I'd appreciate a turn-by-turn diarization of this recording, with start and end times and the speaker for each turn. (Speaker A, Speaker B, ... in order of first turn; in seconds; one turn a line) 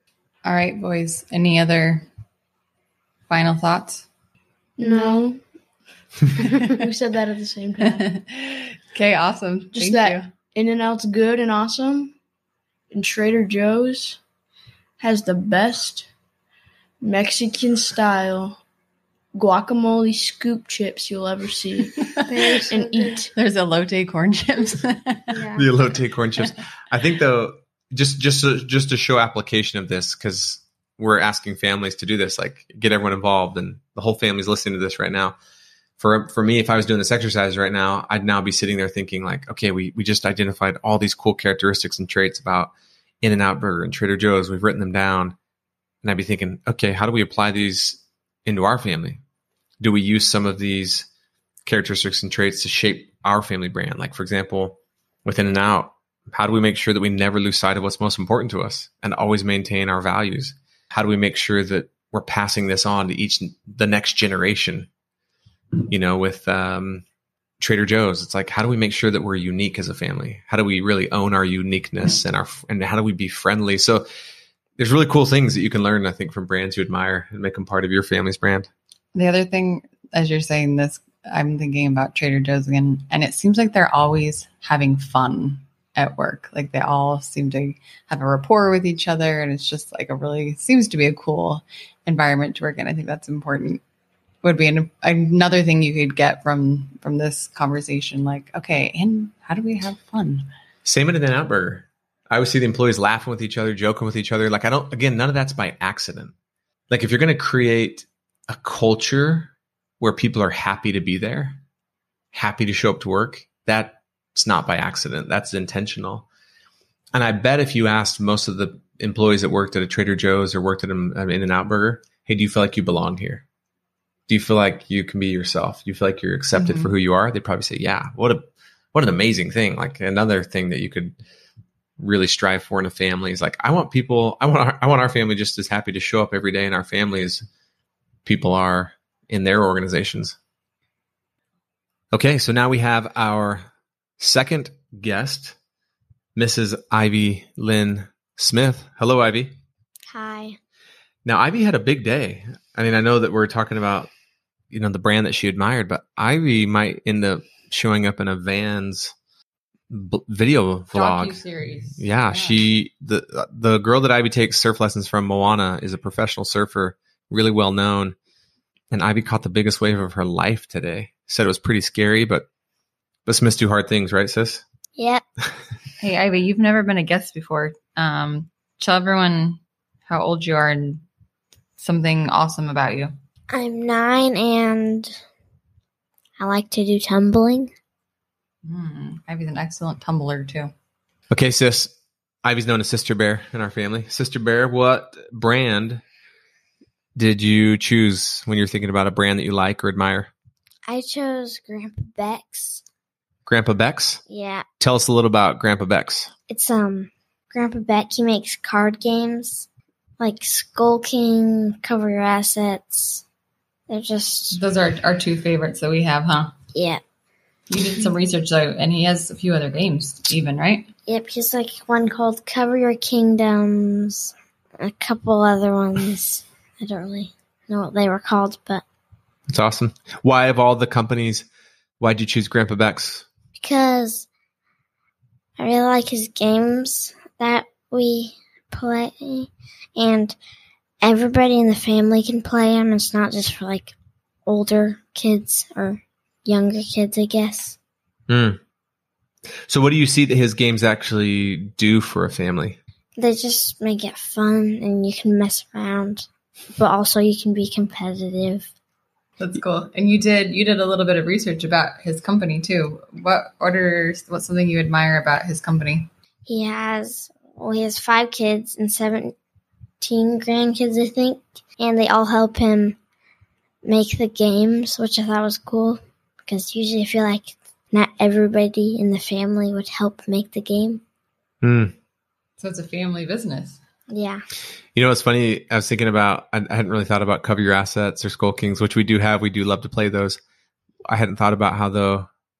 Speaker A: 0.4-2.1
Speaker A: 3.3-4.0
Speaker B: 4.8-5.4
Speaker C: 4.8-5.3
Speaker B: 6.6-8.1
Speaker A: 7.8-10.3
Speaker B: 9.7-12.1
Speaker B: 12.9-14.2
Speaker B: 15.0-16.1
Speaker B: 17.0-18.6
Speaker B: 19.3-22.2
Speaker C: 22.2-23.3
Speaker B: 22.7-23.3
Speaker A: 23.3-25.4
Speaker C: 25.3-25.7
Speaker D: 25.6-35.4
Speaker D: 36.0-45.4
Speaker D: 46.0-49.2
Speaker D: 49.8-51.1
Speaker D: 51.6-64.9
Speaker D: 65.9-67.0
Speaker D: 67.6-74.1
Speaker D: 74.8-78.7
Speaker A: 79.1-93.8
Speaker A: 94.4-100.4
Speaker D: 100.8-106.3
Speaker D: 106.9-111.6
Speaker D: 112.3-116.2
Speaker D: 117.1-123.4
Speaker D: 124.3-131.2
Speaker A: 126.5-126.9
Speaker D: 132.0-137.4
Speaker D: 138.2-140.4
Speaker D: 142.1-143.7
Speaker D: 144.2-145.6
Speaker D: 146.3-149.5
Speaker E: 150.1-150.6
Speaker D: 151.2-154.1
Speaker D: 154.7-159.1
Speaker D: 159.9-161.4
Speaker A: 160.9-162.8
Speaker D: 161.9-168.2
Speaker D: 168.9-172.4
Speaker D: 173.2-174.6
Speaker E: 174.9-175.2
Speaker A: 176.0-181.0
Speaker A: 181.8-183.1
Speaker E: 183.5-185.2
Speaker E: 186.4-187.7
Speaker A: 188.6-190.7
Speaker D: 191.3-196.0
Speaker D: 197.1-200.3
Speaker E: 200.9-202.8
Speaker D: 203.4-204.2
Speaker E: 204.3-204.6
Speaker D: 204.8-206.3
Speaker E: 206.5-209.7
Speaker E: 210.2-213.2
Speaker E: 213.9-214.6
Speaker A: 214.5-216.5
Speaker E: 216.7-217.0
Speaker A: 217.7-220.9
Speaker E: 221.1-228.8
Speaker D: 229.5-231.5
Speaker D: 232.0-233.3
Speaker E: 233.6-234.3
Speaker E: 235.6-240.3
Speaker E: 241.0-243.9
Speaker E: 244.4-247.8
Speaker D: 248.3-248.6
Speaker D: 249.7-252.8
Speaker E: 253.2-258.7
Speaker A: 259.4-266.1
Speaker E: 266.4-269.3
Speaker E: 270.0-273.0
Speaker E: 273.8-281.0
Speaker D: 281.6-281.9
Speaker A: 282.6-283.8
Speaker E: 284.1-284.4
Speaker D: 284.9-290.4
Speaker D: 291.1-292.3